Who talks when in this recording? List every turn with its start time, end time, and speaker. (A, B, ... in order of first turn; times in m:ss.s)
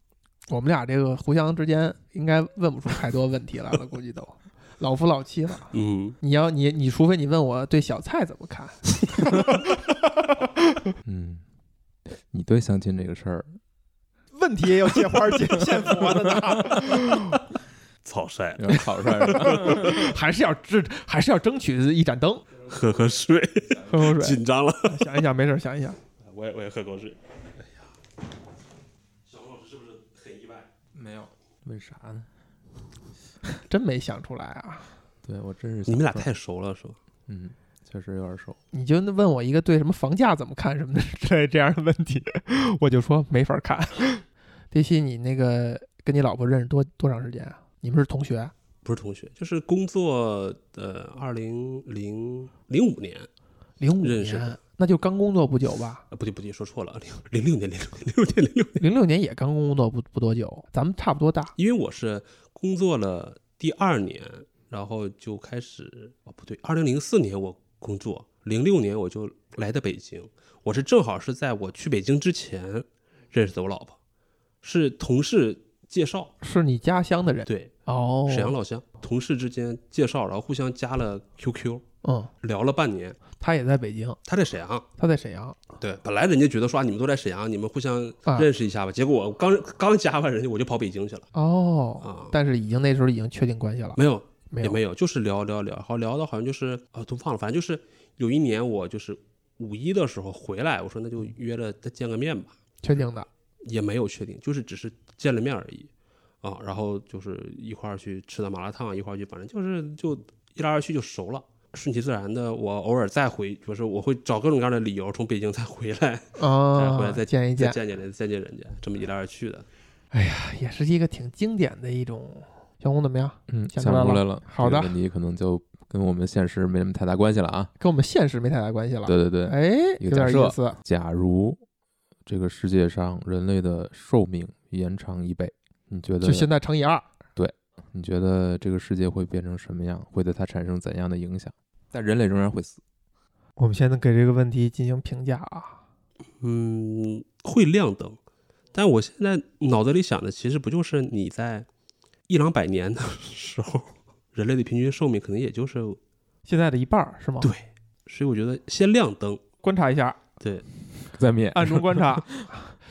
0:00.5-0:10.0 A
0:05.7-0:06.2 B
0:11.0-0:11.4 C
0:12.3-0:13.6 C
0:14.3-0:17.4 A
0:18.0-0:18.8 B
0:18.6-0:20.2 C
0:18.7-0:22.4 A
0:22.6-0:25.1 B
0:23.9-0:26.0 A
0:26.2-0:27.9 B
0:29.3-0:30.7 B
0:30.9-0:32.3 C
0:33.7-0:34.9 A
0:35.2-0:36.3 C
0:35.9-0:37.0 B
0:37.3-0:38.6 C
0:38.7-0:48.5 A
0:48.8-0:53.3 B
0:53.8-0:56.0 A
0:54.0-0:54.6 B
0:56.1-0:58.8 B
0:58.8-1:01.5 A
1:01.6-1:14.0 B
1:14.6-1:16.3 B
1:16.4-1:18.5 A
1:17.5-1:17.7 B
1:18.3-1:21.8 B
1:22.0-1:22.3 A
1:22.4-1:23.2 B
1:23.4-1:24.2 A
1:24.3-1:24.9 B
1:25.0-1:25.6 A
1:25.8-1:31.3 B
1:31.3-1:34.0 A
1:32.0-1:32.3 B
1:34.0-1:42.6 B
1:34.5-1:34.8 A
1:42.8-1:43.3 A
1:43.6-1:45.9 B
1:46.4-1:59.7 B
1:56.4-1:57.8 A
2:00.1-2:04.9 A
2:03.5-2:07.7 C
2:07.8-2:10.8 A
2:09.0-2:11.6 C
2:12.3-2:16.5 C
2:16.2-2:17.0 A
2:17.4-2:22.8 C
2:23.6-2:25.8 A
2:26.4-2:28.2 B
2:28.7-2:31.7 B
2:32.3-2:36.0 B
2:36.5-2:37.5 A
2:37.4-2:39.4 B
2:39.6-2:40.2 A
2:40.4-2:40.7 B
2:41.1-2:42.4 C
2:41.5-2:42.8 A